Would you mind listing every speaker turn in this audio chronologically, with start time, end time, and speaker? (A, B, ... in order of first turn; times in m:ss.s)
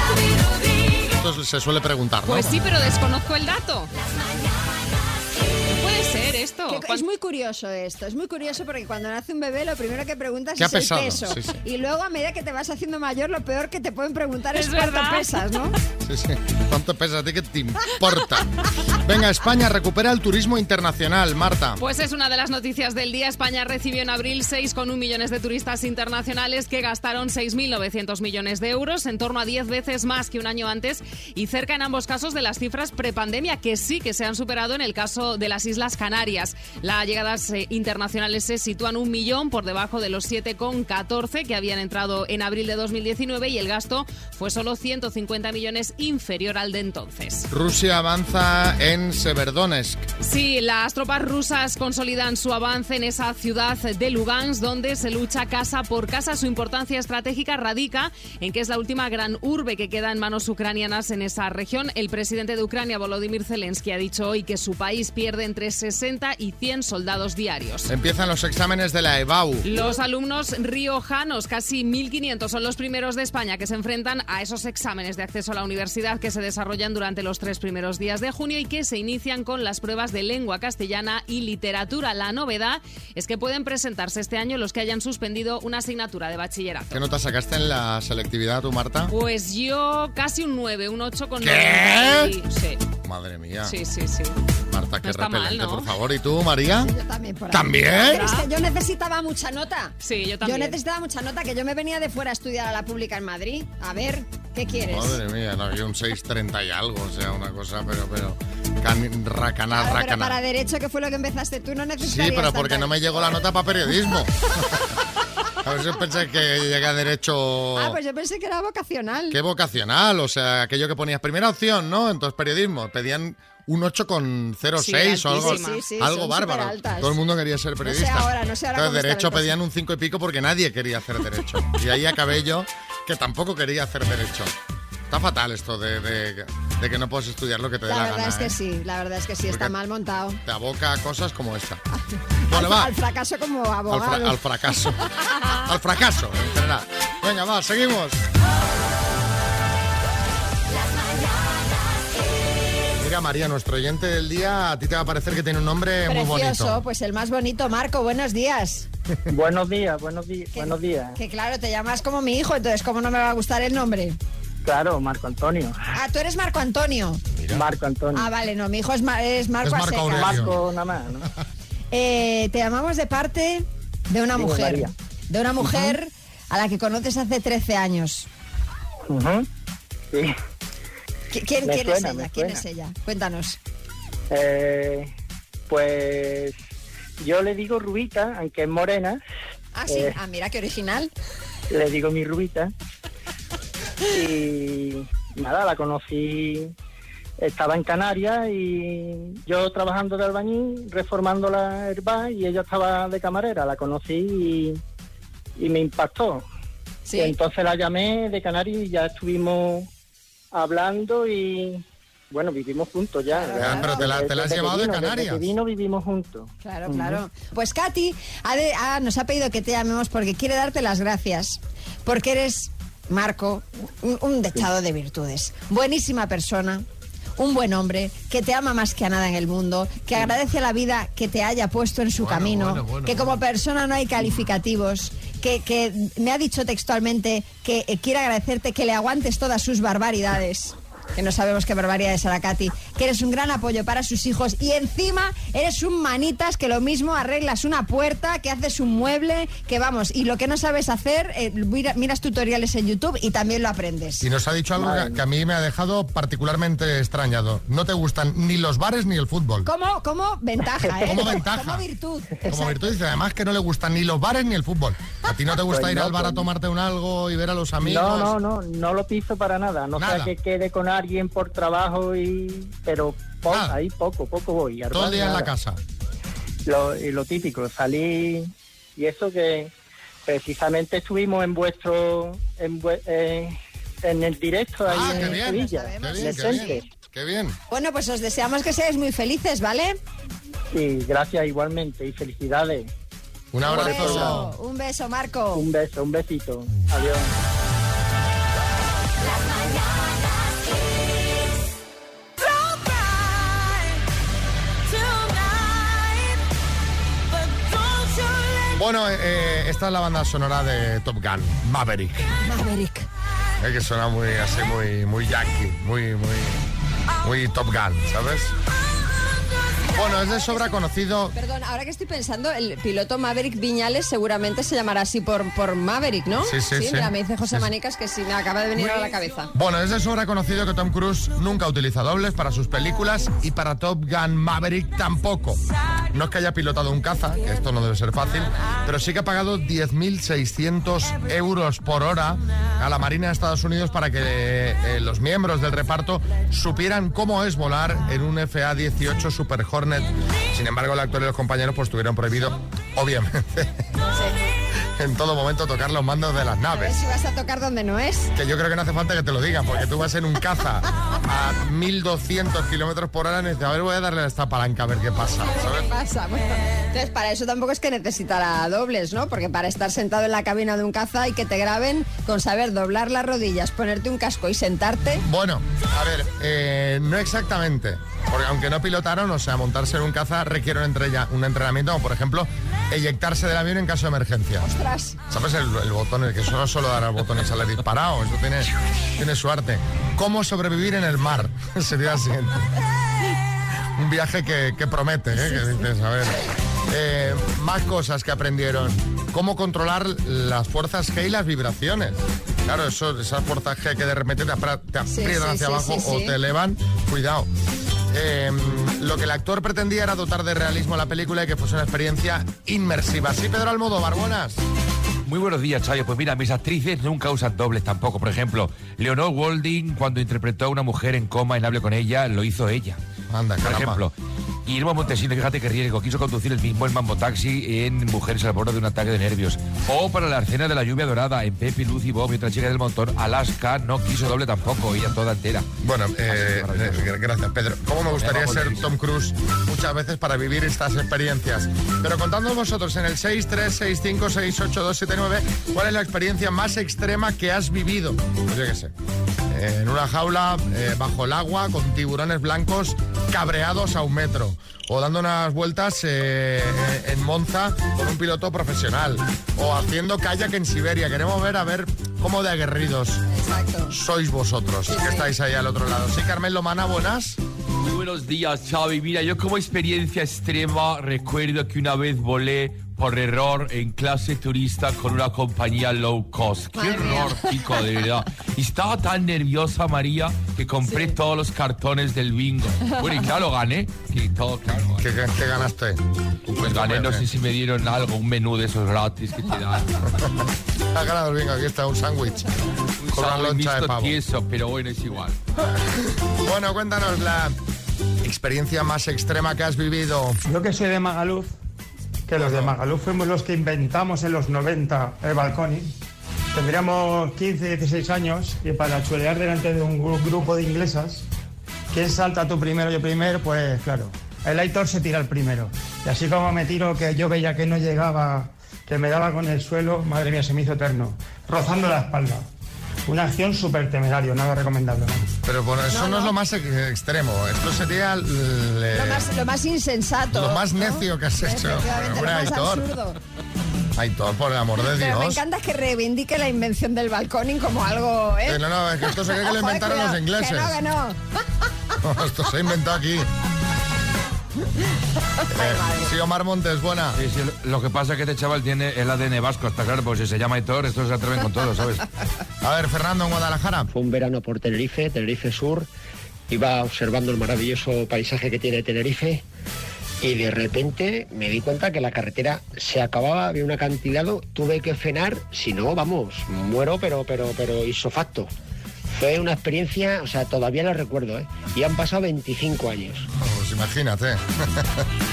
0:00.9-0:02.6 A
0:02.2-0:03.9 B
0:05.7-0:07.0 B
0:06.7-0:15.7 C
0:10.6-0:11.6 A
0:14.5-0:15.4 B
0:16.0-0:21.8 A
0:21.8-0:47.5 B
0:47.5-0:50.0 A
0:50.2-1:07.9 B
1:07.9-1:09.7 A
1:09.6-1:27.0 B
1:26.9-1:29.1 A
1:29.1-1:32.8 B
1:31.4-1:32.3 A
1:33.0-1:33.8 A
1:33.6-1:34.4 B
1:34.7-1:36.9 A
1:35.0-1:35.9 B
1:36.8-1:45.2 C
1:37.5-1:38.3 A
1:37.9-1:38.5 B
1:40.0-1:40.8 B
1:44.9-1:50.4 A
1:49.8-1:53.3 C
1:52.0-1:54.5 A
1:55.6-1:58.0 A
1:57.8-1:59.4 C
1:59.3-2:14.5 A
2:04.8-2:05.8 B
2:05.3-2:07.2 C
2:07.8-2:09.5 C
2:15.1-2:18.6 A
2:17.9-2:20.4 C
2:19.5-2:19.8 A
2:20.4-2:21.8 A
2:22.5-2:24.4 C
2:22.5-2:22.9 A
2:23.9-2:28.2 A
2:33.0-2:36.8 A
2:36.1-2:38.9 C
2:39.3-2:41.2 D
2:40.6-2:44.2 C
2:44.6-2:45.8 D
2:46.0-2:47.2 C
2:47.5-2:48.3 D
2:48.2-2:50.5 C
2:49.6-2:50.6 A
2:50.1-2:51.3 D
2:51.9-2:58.3 C
2:54.3-2:54.9 D
2:55.6-2:56.0 D
2:59.1-2:59.5 D
3:01.3-3:03.6 C
3:01.6-3:02.6 D
3:04.3-3:05.1 D
3:05.7-3:06.6 D
3:07.2-3:09.2 D
3:09.7-3:11.1 C
3:09.9-3:10.2 D
3:11.7-3:12.7 D
3:14.1-3:16.7 D
3:17.4-3:24.8 D
3:25.6-3:26.4 D
3:27.1-3:27.4 C
3:27.1-3:29.9 D
3:30.5-3:37.2 D
3:33.3-3:34.1 C
3:33.6-3:35.5 A
3:36.6-3:46.8 C
3:47.4-4:14.3 C
3:52.2-3:53.3 A
4:14.2-4:19.7 A
4:19.6-4:22.8 C
4:20.8-4:21.4 D
4:21.1-4:21.8 A
4:22.4-4:28.3 A
4:25.6-4:26.4 D
4:27.8-4:35.5 D
4:30.0-4:30.3 A
4:33.5-4:33.8 A
4:34.9-4:35.8 A
4:36.7-4:39.7 D
4:40.3-4:46.8 D
4:44.8-4:47.6 A
4:44.9-4:46.8 C
4:47.7-4:50.0 C
4:50.7-4:52.9 D
4:53.5-4:54.5 A
4:53.6-4:54.4 D
4:53.7-4:55.7 C
4:55.6-4:57.3 D
5:08.8-5:12.3 A
5:12.4-5:13.1 C
5:13.6-5:16.6 A
5:17.2-5:18.5 A
5:19.9-5:21.4 A
5:20.0-5:20.8 C
5:21.3-5:29.5 C
5:26.4-5:27.7 A
5:29.5-5:35.6 A
5:36.1-5:53.7 A
5:55.0-5:57.0 A
5:56.8-5:58.3 C
5:58.4-6:05.9 A
6:05.8-6:15.2 C
6:15.2-6:24.7 A
6:24.6-6:25.2 C
6:25.3-6:32.7 A
6:34.0-6:47.5 A
6:45.1-6:46.4 C
6:48.1-6:54.6 A
6:55.2-7:03.0 E
7:03.3-7:04.0 A
7:03.6-7:04.1 E
7:04.7-7:15.7 E
7:15.8-7:28.9 A
7:16.3-7:17.1 E
7:18.1-7:18.8 E
7:29.5-7:43.2 A
7:43.3-7:44.0 C
7:43.9-7:47.4 A
7:44.9-7:45.3 C
7:47.8-8:05.1 E
7:56.8-7:57.4 C
8:05.0-8:07.2 A
8:06.6-8:09.9 E
8:10.9-8:12.5 A
8:13.0-8:15.4 E
8:13.1-8:14.2 A
8:16.4-8:17.6 A
8:18.2-8:20.4 A
8:20.5-8:21.5 F
8:22.3-8:25.9 F
8:22.4-8:22.8 A
8:26.5-8:31.2 F
8:31.9-8:42.5 F
8:43.1-8:45.3 F
8:45.4-8:49.3 A
8:45.9-8:46.3 C
8:48.9-8:53.2 C
8:50.3-8:52.9 A
8:54.0-8:55.4 A
8:55.0-8:58.6 C
8:58.5-9:00.8 A
8:59.4-9:01.2 C
9:02.0-9:03.3 A
9:05.5-9:06.1 C
9:05.5-9:07.2 A
9:07.2-9:12.0 E
9:12.6-9:13.9 A
9:13.9-9:15.9 G
9:16.5-9:19.4 G
9:20.2-9:28.5 G
9:29.1-9:33.3 G
9:33.4-9:35.1 A